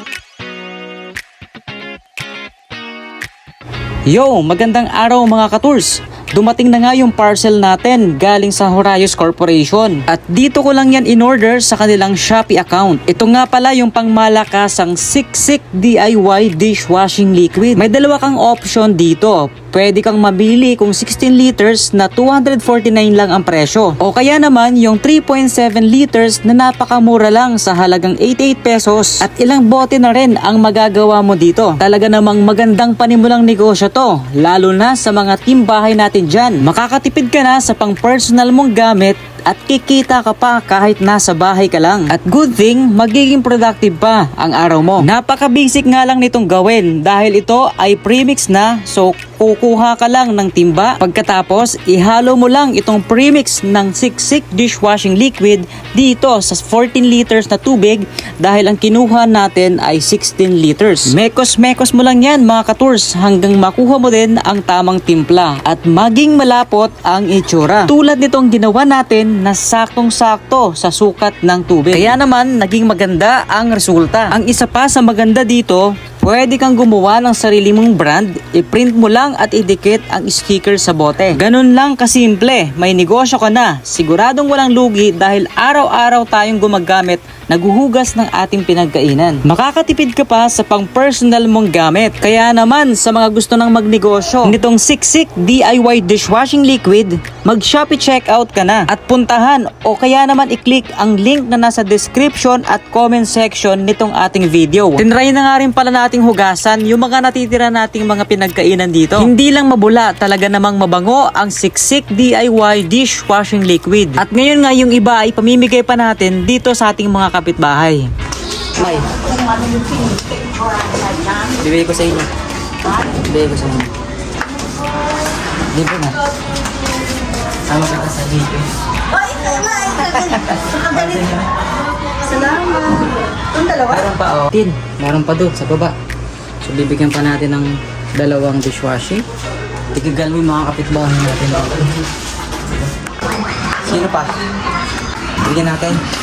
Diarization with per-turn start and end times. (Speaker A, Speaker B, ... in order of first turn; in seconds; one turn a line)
Speaker A: 4.1-118.1
Speaker A: 118.8-119.1
Speaker B: 119.1-121.5
Speaker A: 121.4-122.3
Speaker A: 123.0-123.9
Speaker A: 125.7-126.2
Speaker A: 127.7-128.7
Speaker B: 129.1-131.4
Speaker A: 130.0-131.5
Speaker B: 131.9-134.1
Speaker A: 133.9-135.9
Speaker A: 136.6-139.2
Speaker A: 139.9-142.0
Speaker A: 143.8-144.4
Speaker A: 145.4-146.0